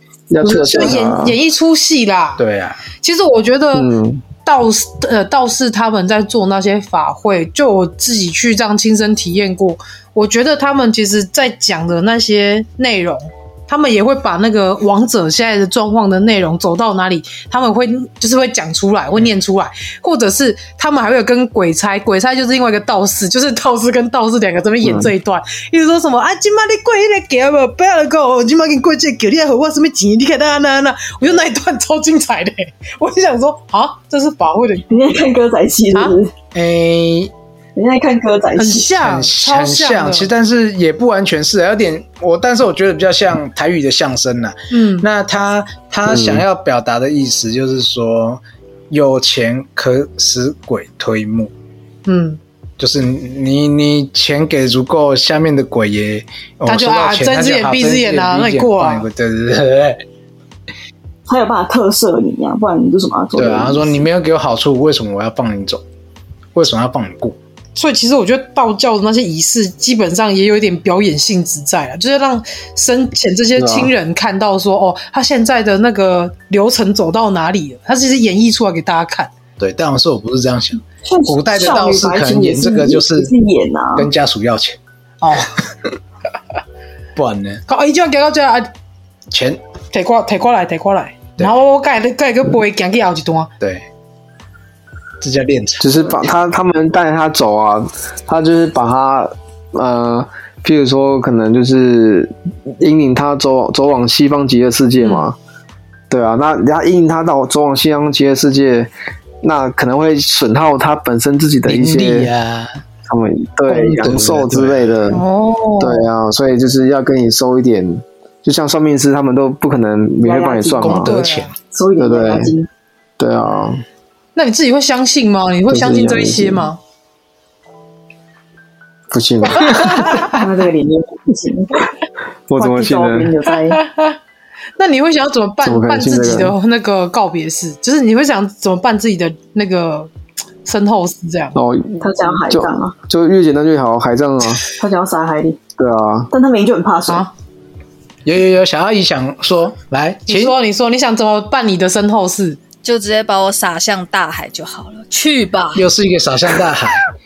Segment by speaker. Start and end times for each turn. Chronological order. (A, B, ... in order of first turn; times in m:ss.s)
0:00.3-0:01.4 A
0:00.4-0:02.4 B
0:02.4-0:02.8 C
0:03.0-0:03.9 B
0:03.7-0:04.2 A
0:04.4-0:34.9 B
0:24.8-0:25.1 A
0:34.9-0:36.3 D
0:36.5-0:37.3 C
0:37.8-0:38.9 D
0:38.6-0:40.3 B
0:39.0-0:51.5 C
0:44.7-0:45.0 B
0:46.1-0:46.4 A
0:52.0-0:52.4 B
0:52.8-1:00.0 C
0:56.6-0:59.1 B
1:01.3-1:04.0 D
1:03.4-1:05.8 C
1:06.5-1:07.4 C
1:07.8-1:19.3 B
1:13.6-1:13.9 A
1:19.6-1:23.3 C
1:21.0-1:24.1 D
1:24.0-1:24.8 C
1:25.2-1:25.5 B
1:27.2-1:27.6 C
1:27.7-1:28.7 B
1:29.3-1:29.6 C
1:29.9-1:33.5 B
1:33.6-1:33.8 C
1:35.2-1:36.0 C
1:35.8-1:45.4 A
1:45.0-1:45.3 B
1:46.1-1:48.9 A
1:49.4-1:52.3 A
1:51.7-1:52.7 C
1:53.0-1:55.2 A
1:53.7-1:55.1 C
1:55.1-1:56.0 B
1:55.8-2:01.1 A
2:00.2-2:01.0 D
2:00.8-2:01.5 C
2:01.0-2:01.5 B
2:01.7-2:02.7 D
2:02.0-2:02.5 A
2:03.2-2:03.8 A
2:04.3-2:06.8 B
2:05.7-2:06.7 A
2:09.1-2:10.1 A
2:09.6-2:10.3 B
2:10.2-2:11.9 D
2:12.5-2:13.3 A
2:12.6-2:13.8 D
2:13.8-2:14.2 B
2:14.8-2:20.1 B
2:15.6-2:16.5 A
2:20.6-2:21.6 B
2:21.5-2:24.6 A
2:22.0-2:22.9 D
2:24.8-2:25.6 D
2:25.8-2:26.3 A
2:26.3-2:27.3 D
2:28.2-2:30.6 C
2:30.3-2:32.6 B
2:32.8-2:35.8 E
2:35.7-2:37.0 C